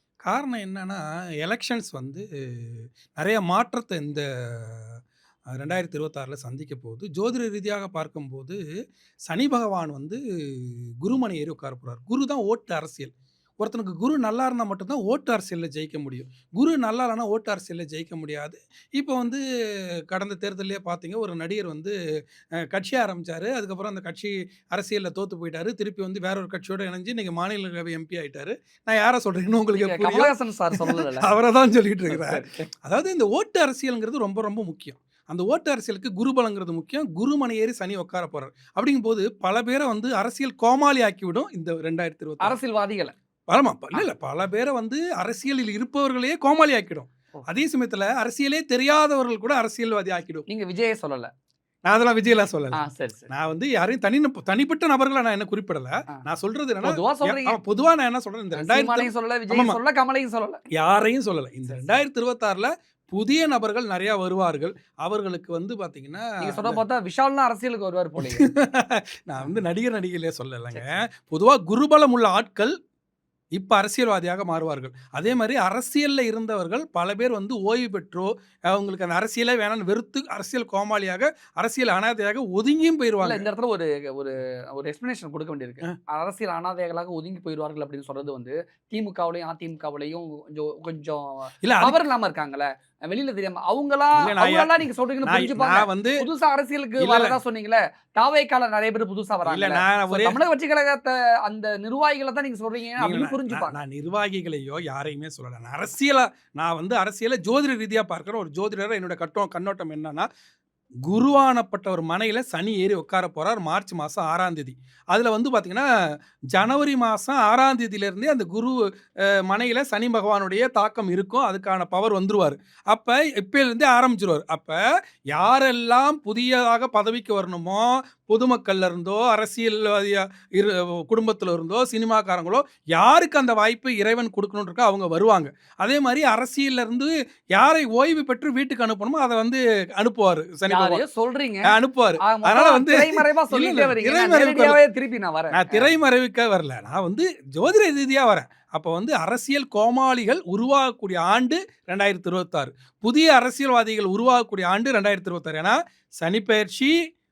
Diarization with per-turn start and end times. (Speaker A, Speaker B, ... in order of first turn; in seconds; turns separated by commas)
Speaker A: 0.2-5.0, Speaker A: 5.5-8.6, Speaker A: 9.3-19.4, Speaker A: 20.1-21.9, Speaker A: 22.6-42.6, Speaker B: 29.8-31.3, Speaker B: 32.1-32.7, Speaker B: 42.4-43.1, Speaker A: 43.5-50.4, Speaker B: 50.5-51.3, Speaker A: 51.9-59.8, Speaker B: 52.7-53.3, Speaker B: 56.8-57.6, Speaker B: 58.5-60.6, Speaker A: 60.7-66.8, Speaker B: 61.7-62.0, Speaker B: 66.4-68.5, Speaker A: 68.2-72.7, Speaker B: 70.7-71.0, Speaker A: 73.5-83.5, Speaker B: 83.2-103.8, Speaker A: 91.6-92.0, Speaker A: 94.2-96.2, Speaker A: 97.0-97.4, Speaker A: 99.5-100.4, Speaker A: 103.0-110.3, Speaker A: 111.0-115.9, Speaker A: 116.5-124.8, Speaker A: 125.3-141.0, Speaker B: 140.7-145.9, Speaker A: 141.6-144.8, Speaker A: 145.5-156.9